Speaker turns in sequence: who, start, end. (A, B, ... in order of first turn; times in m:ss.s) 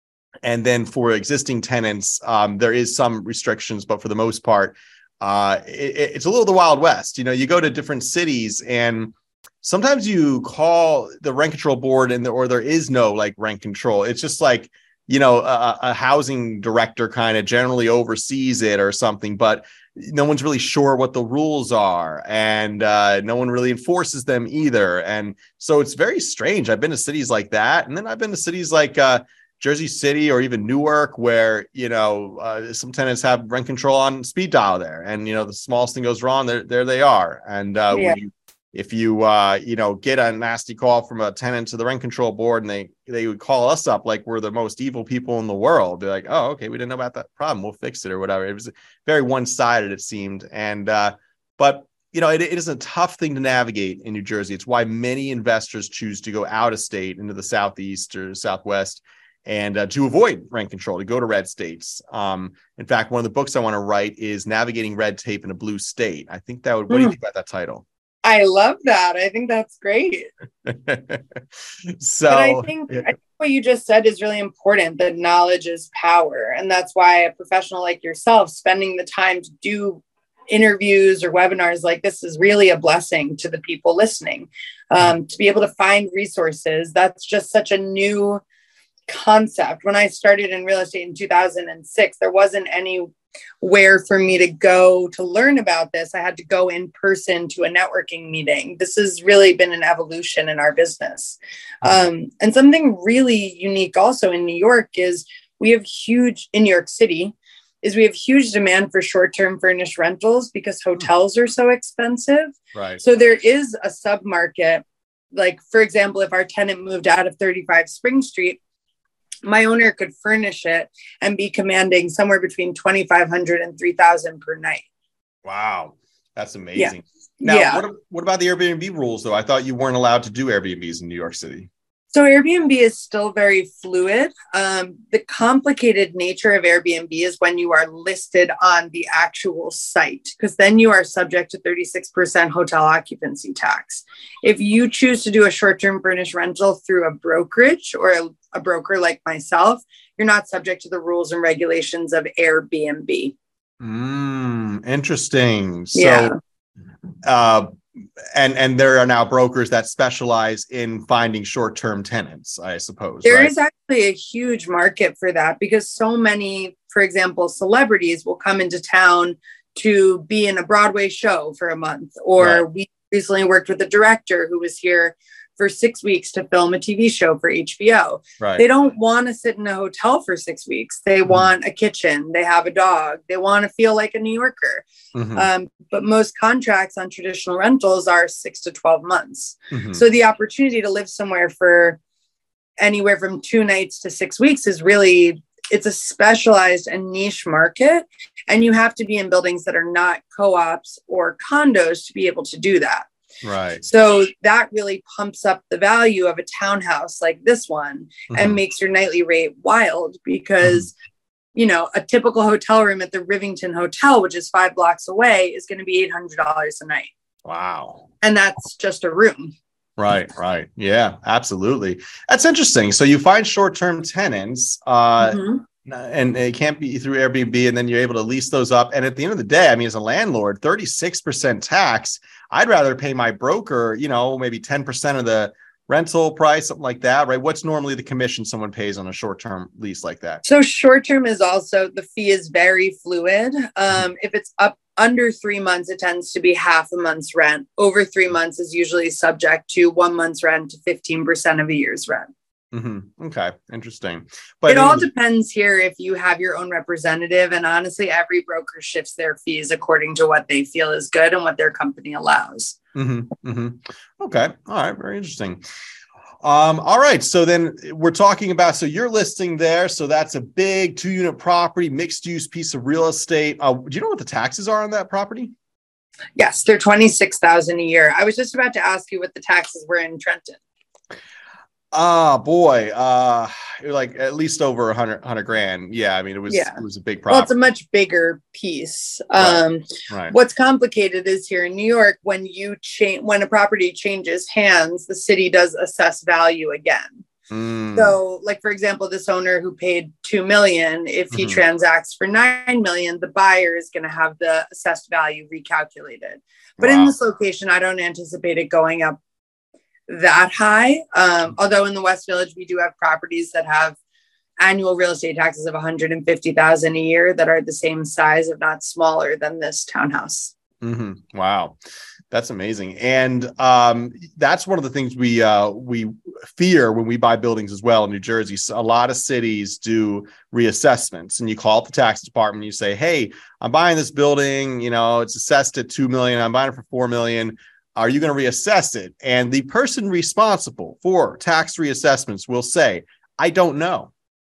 0:00.4-1:07.8 A
1:06.9-1:07.2 B
1:08.2-1:10.3 B
1:10.6-1:13.0 A
1:12.3-1:28.4 B
1:29.1-1:58.6 B
1:52.7-1:53.0 A
1:59.4-2:04.8 B
2:05.4-2:11.7 A
2:07.4-2:07.8 B
2:12.1-2:33.3 B
2:33.8-2:36.3 A
2:35.9-2:36.4 B
2:37.2-2:43.5 A
2:43.2-3:12.0 B
2:58.4-2:58.6 A
3:05.1-3:05.4 A
3:09.7-3:10.0 A
3:12.8-3:23.1 B
3:23.4-3:23.8 A
3:23.8-3:30.9 B
3:28.3-3:28.6 A
3:30.6-3:30.9 A
3:31.5-3:37.1 B
3:37.4-3:38.1 A
3:38.2-3:39.5 B
3:40.0-4:00.4 A
3:45.2-3:45.6 B
4:00.4-4:12.3 B
4:12.7-4:15.1 A
4:14.7-4:22.8 B
4:22.9-4:25.6 A
4:26.4-4:35.5 A
4:36.4-4:40.6 B
4:41.9-4:47.5 A
4:46.5-4:46.8 B
4:47.3-4:57.2 B
4:49.4-4:50.3 A
4:57.5-4:58.2 A
4:57.9-5:09.2 B
5:01.3-5:01.6 A
5:06.8-5:07.1 A
5:10.1-5:14.0 B
5:14.6-5:20.5 B
5:20.8-5:21.8 A
5:22.3-5:44.1 A